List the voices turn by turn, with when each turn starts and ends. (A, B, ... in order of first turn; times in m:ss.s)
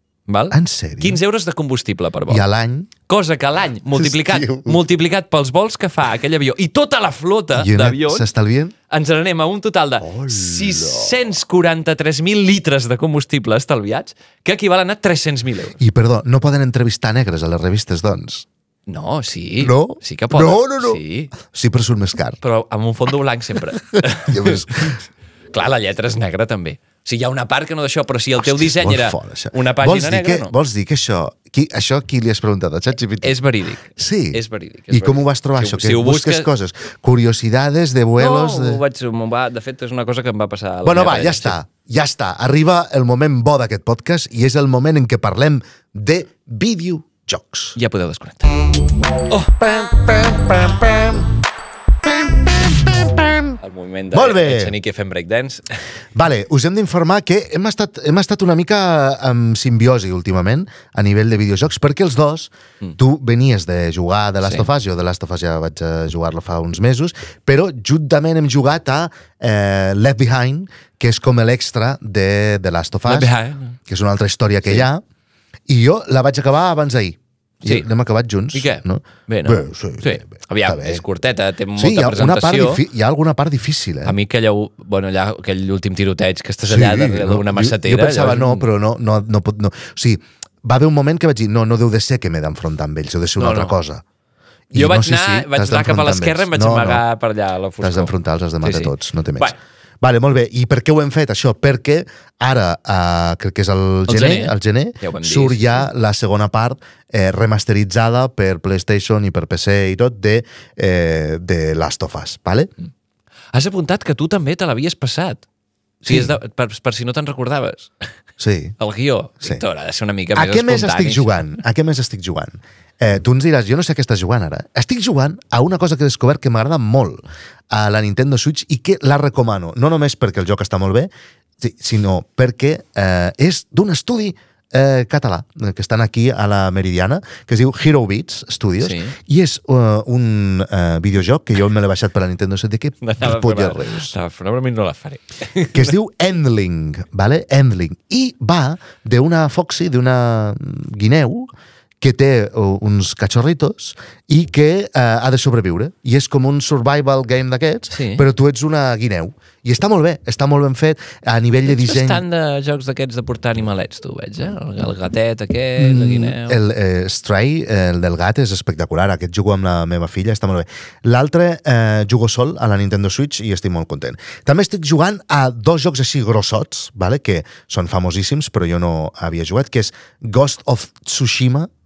0:00.3-0:02.4 A
0:00.5-0:01.2 B
0:02.3-0:02.9 B
0:03.1-0:08.3 A
0:03.9-0:04.8 B
0:07.6-0:08.7 B
0:08.9-0:15.8 A
0:10.0-0:11.2 B
0:15.8-0:18.5 B
0:18.9-0:21.3 A
0:19.6-0:22.4 B
0:22.4-0:25.0 A
0:24.0-0:25.0 B
0:25.5-0:30.5 A
0:28.4-0:33.4 B
0:33.2-0:36.5 A
0:34.0-0:38.8 B
0:38.2-0:41.6 A
0:40.8-0:47.8 B
0:47.8-0:48.6 A
0:49.3-0:51.3 B
0:52.0-0:53.6 B
0:53.6-0:55.8 A
0:54.1-0:54.7 B
0:56.2-1:13.3 B
1:13.1-1:13.8 A
1:13.9-1:15.0 B
1:15.7-1:21.0 B
1:18.5-1:22.8 A
1:21.8-1:24.2 B
1:24.0-1:28.7 A
1:26.7-1:34.0 B
1:33.4-1:33.7 A
1:34.7-1:37.0 B
1:34.7-1:39.6 A
1:37.8-1:52.7 B
1:44.1-1:45.9 A
1:53.5-1:55.4 A
1:56.0-1:56.3 B
1:56.0-1:58.1 A
1:58.4-1:58.8 B
1:58.8-2:01.5 A
2:00.4-2:24.1 B
2:18.8-2:19.2 A
2:23.0-2:25.9 A
2:25.7-2:31.5 B
2:32.0-2:42.2 B
2:37.9-2:38.3 A
2:41.7-2:46.6 A
2:45.8-3:01.7 B